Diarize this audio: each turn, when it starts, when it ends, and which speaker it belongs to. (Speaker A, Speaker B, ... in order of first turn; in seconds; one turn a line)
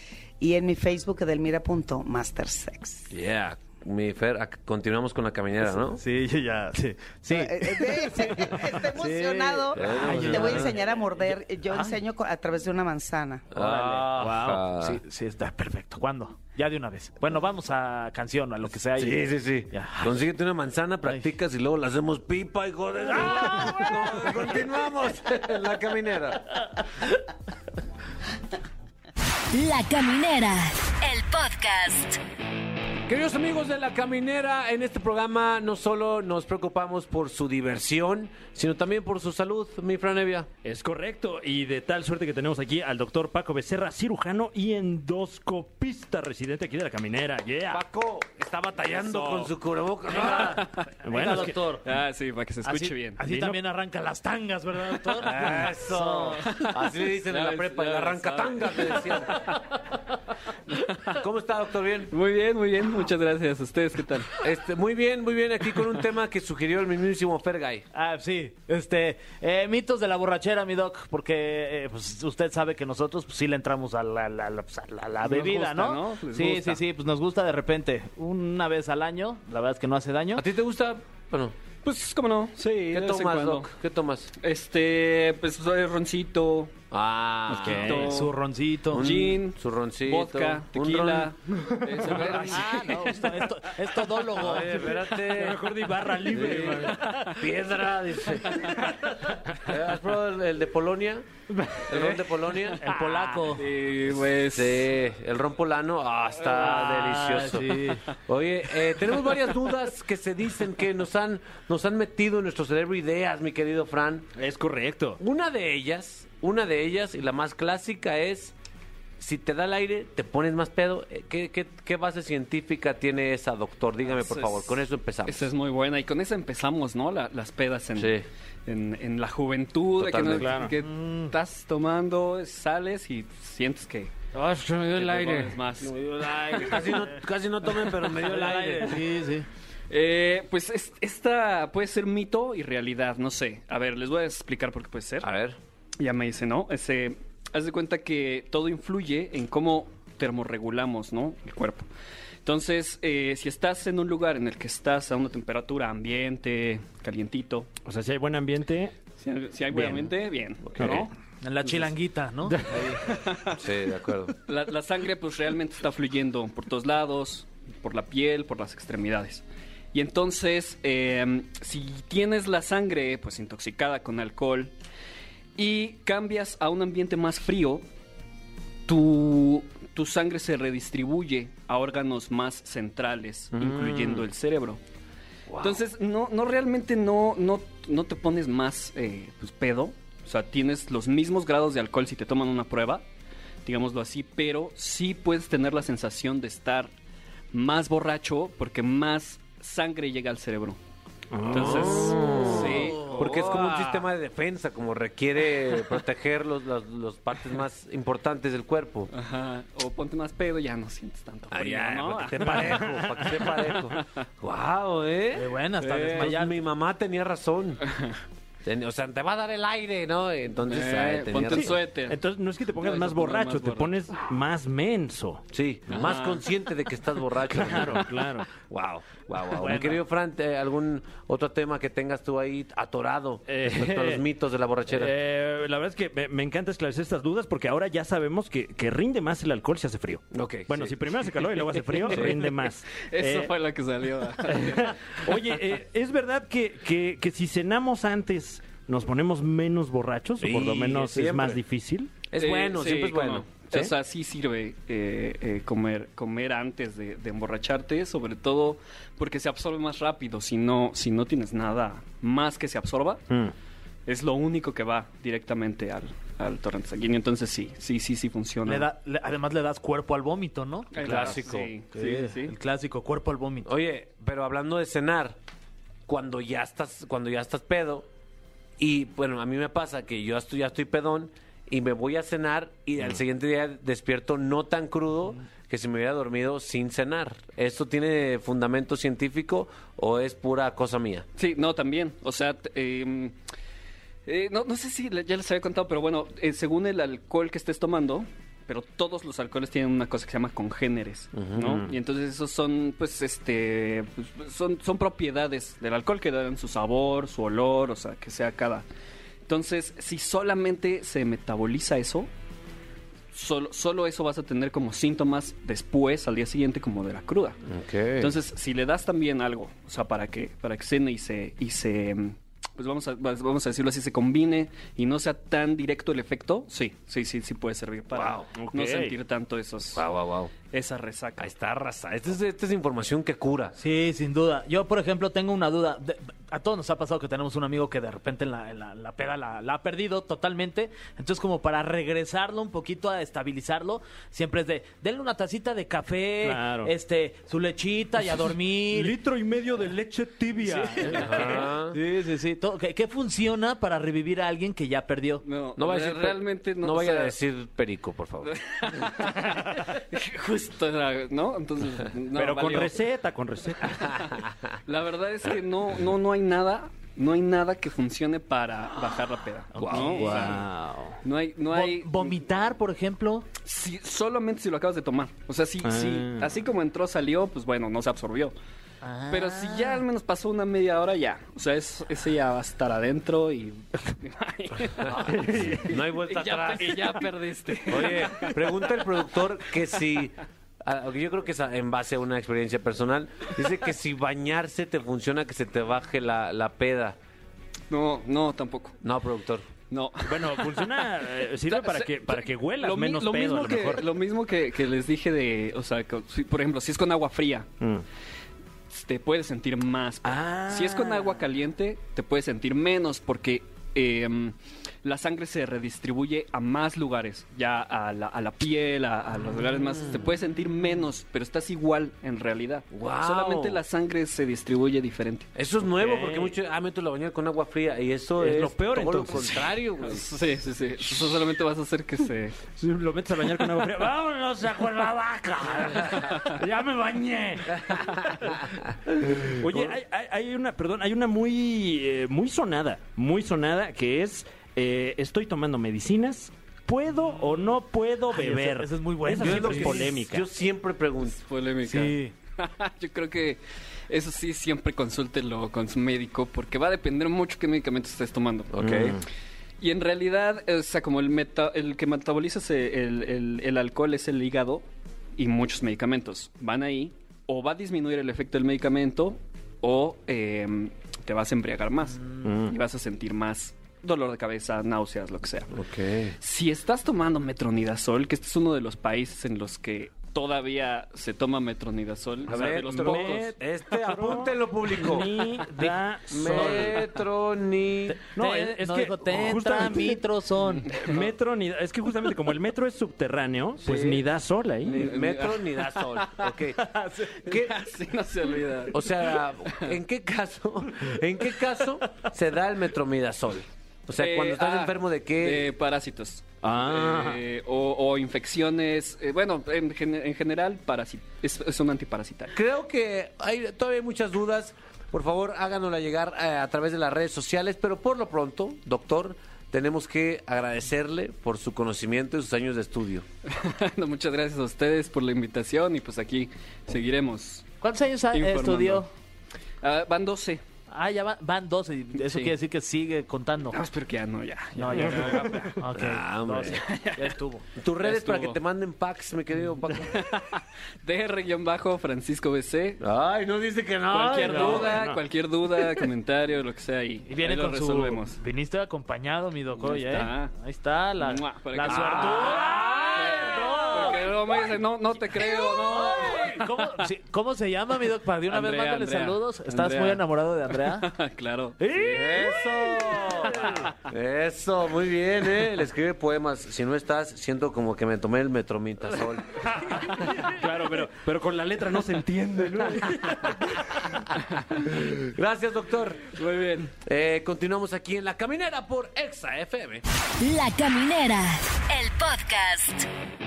Speaker A: 0.4-3.1
Speaker B: 3.1-6.0
Speaker C: 5.9-10.8
Speaker A: 7.3-13.5
Speaker B: 9.8-10.7
Speaker C: 11.7-12.0
Speaker B: 13.5-15.0
Speaker C: 13.5-20.1
Speaker B: 18.9-26.6
Speaker C: 23.2-23.9
Speaker D: 29.5-32.2
Speaker B: 33.1-40.5
Speaker E: 40.6-47.8
Speaker B: 47.7-50.6
Speaker F: 49.1-49.4
Speaker C: 50.1-51.9
Speaker F: 50.3-50.9
Speaker E: 51.0-51.6
Speaker F: 51.8-53.2
Speaker C: 52.6-56.5
Speaker E: 53.2-53.6
Speaker B: 55.2-59.5
Speaker F: 56.5-59.6
Speaker F: 60.7-61.2
Speaker B: 61.1-62.1
Speaker F: 62.1-64.4
Speaker B: 64.4-67.8
Speaker C: 67.9-80.4
Speaker F: 75.2-76.8
Speaker B: 80.3-81.5
Speaker F: 81.8-83.7
Speaker B: 82.9-84.3
Speaker F: 84.4-86.7
Speaker B: 86.9-88.0
Speaker F: 87.5-88.3
Speaker E: 87.5-88.1
Speaker C: 87.7-89.1
Speaker B: 88.9-91.3
Speaker F: 89.0-93.3
Speaker B: 91.9-92.7
Speaker C: 92.3-95.0
Speaker B: 94.3-95.7
Speaker E: 95.2-97.1
Speaker B: 96.2-98.8
Speaker B: 99.6-101.3
Speaker E: 101.5-102.1
Speaker B: 101.8-102.8
Speaker C: 102.8-103.6
Speaker E: 102.9-103.4
Speaker F: 103.5-104.9
Speaker B: 104.3-114.3
Speaker F: 106.4-106.8
Speaker C: 106.6-108.0
Speaker F: 107.9-108.1
Speaker F: 109.1-109.5
Speaker E: 114.3-115.2
Speaker B: 115.2-118.5
Speaker B: 119.2-125.5
Speaker F: 124.2-124.7
Speaker F: 125.2-134.2
Speaker B: 128.0-128.2
Speaker B: 130.0-130.6
Speaker E: 130.3-130.7
Speaker C: 130.8-131.3
Speaker B: 134.3-135.6
Speaker F: 134.9-136.0
Speaker C: 135.8-137.1
Speaker B: 136.6-139.1
Speaker C: 138.0-139.4
Speaker F: 139.9-145.3
Speaker B: 145.2-145.6
Speaker F: 146.0-151.9
Speaker F: 152.4-157.7
Speaker E: 157.8-158.9
Speaker F: 159.1-161.1
Speaker E: 159.7-160.1
Speaker E: 160.6-161.1
Speaker C: 161.4-163.0
Speaker E: 162.5-162.9
Speaker F: 162.9-163.6
Speaker B: 163.5-164.3
Speaker F: 164.4-174.7
Speaker F: 175.6-177.8
Speaker F: 178.8-184.8
Speaker B: 183.5-184.2
Speaker B: 185.5-185.8
Speaker F: 185.6-193.0
Speaker F: 193.6-196.9
Speaker F: 197.5-200.8
Speaker E: 201.3-202.7
Speaker F: 201.4-204.1
Speaker B: 201.4-209.1
Speaker C: 202.6-203.2
Speaker F: 209.1-214.2
Speaker B: 211.5-217.8
Speaker E: 212.4-213.5
Speaker C: 215.3-216.6
Speaker F: 216.0-216.3
Speaker F: 217.9-218.1
Speaker B: 218.6-221.8
Speaker F: 220.6-222.2
Speaker E: 221.5-226.0
Speaker F: 222.8-223.9
Speaker B: 225.5-235.1
Speaker F: 225.9-226.7
Speaker E: 227.5-228.5
Speaker C: 229.6-230.0
Speaker E: 233.5-234.2
Speaker E: 234.9-243.5
Speaker B: 240.3-240.9
Speaker F: 241.9-242.3
Speaker B: 242.1-242.4
Speaker F: 242.9-244.9
Speaker E: 244.5-252.3
Speaker B: 250.4-251.6
Speaker B: 252.3-253.5
Speaker F: 252.3-263.2
Speaker F: 264.1-268.9
Speaker C: 268.6-271.4
Speaker F: 270.9-272.5
Speaker B: 271.0-271.7
Speaker C: 271.9-273.7
Speaker B: 273.6-275.4
Speaker B: 276.1-278.1
Speaker B: 278.8-291.3
Speaker F: 291.4-293.4
Speaker F: 294.2-308.9
Speaker B: 301.3-301.9
Speaker F: 309.5-312.3
Speaker F: 313.3-317.6
Speaker B: 317.6-318.3
Speaker F: 318.2-330.0
Speaker B: 328.1-328.5
Speaker E: 328.5-329.1
Speaker B: 329.9-330.5
Speaker F: 330.7-331.5
Speaker B: 331.4-333.7
Speaker C: 333.8-349.1
Speaker E: 346.4-346.9
Speaker E: 348.9-351.7
Speaker C: 350.6-355.4
Speaker B: 351.0-352.0
Speaker F: 355.4-357.3
Speaker B: 355.8-359.0
Speaker F: 358.4-363.0
Speaker E: 362.3-364.3
Speaker F: 364.0-364.3
Speaker F: 364.9-370.6
Speaker C: 369.7-370.6
Speaker B: 369.8-370.3
Speaker E: 369.8-371.2
Speaker F: 371.2-372.4
Speaker C: 371.7-373.5
Speaker F: 373.6-378.5
Speaker E: 375.8-376.5
Speaker C: 379.0-380.0
Speaker F: 379.3-388.9
Speaker E: 385.2-385.9
Speaker B: 385.7-387.3
Speaker B: 387.9-397.2
Speaker F: 397.9-399.0
Speaker B: 399.0-399.7
Speaker F: 399.9-401.1
Speaker E: 400.3-404.0
Speaker F: 401.6-407.7
Speaker F: 408.9-425.5
Speaker E: 410.2-411.4
Speaker B: 422.9-423.8
Speaker B: 425.5-430.3
Speaker E: 425.9-426.5
Speaker E: 428.4-429.6
Speaker F: 429.4-432.6
Speaker E: 432.7-450.4
Speaker C: 448.3-450.1
Speaker B: 449.4-451.4
Speaker F: 451.3-458.7
Speaker C: 451.8-452.3
Speaker B: 458.7-459.2
Speaker F: 459.8-464.8
Speaker F: 465.4-475.7
Speaker E: 472.4-472.7
Speaker B: 475.7-476.3
Speaker F: 476.4-483.9
Speaker B: 482.4-485.3
Speaker E: 482.5-487.1
Speaker C: 485.7-487.1
Speaker B: 486.3-488.2
Speaker C: 488.1-490.9
Speaker E: 488.3-490.2
Speaker F: 490.6-491.2
Speaker E: 491.0-495.1
Speaker B: 493.8-494.3
Speaker B: 494.8-496.8
Speaker F: 494.9-496.6
Speaker C: 496.8-497.4
Speaker F: 497.3-499.9
Speaker B: 497.4-497.8
Speaker B: 498.9-505.7
Speaker F: 504.1-512.6
Speaker E: 506.6-507.4
Speaker B: 512.5-523.2
Speaker F: 523.5-527.7
Speaker C: 527.8-529.1
Speaker F: 528.3-529.0
Speaker F: 529.8-530.6
Speaker C: 530.9-533.8
Speaker F: 532.2-532.5
Speaker F: 533.7-535.8
Speaker C: 534.7-537.6
Speaker E: 535.0-535.5
Speaker B: 535.9-536.8
Speaker F: 536.7-537.3
Speaker B: 537.8-540.3
Speaker F: 538.0-538.6
Speaker F: 539.9-543.0
Speaker B: 543.0-545.0
Speaker F: 544.1-548.4
Speaker C: 544.4-544.9
Speaker E: 544.7-545.2
Speaker C: 547.2-552.7
Speaker F: 549.8-550.5
Speaker F: 551.2-557.1
Speaker B: 552.0-554.0
Speaker E: 552.4-554.2
Speaker C: 553.3-554.2
Speaker B: 555.9-556.5
Speaker E: 555.9-556.5
Speaker C: 556.4-561.1
Speaker F: 558.5-562.4
Speaker E: 561.8-563.9
Speaker B: 562.0-570.0
Speaker E: 569.6-574.2
Speaker F: 570.0-571.1
Speaker B: 572.9-573.3
Speaker B: 575.1-576.3
Speaker F: 576.3-576.9
Speaker B: 577.0-580.0
Speaker D: 580.4-583.1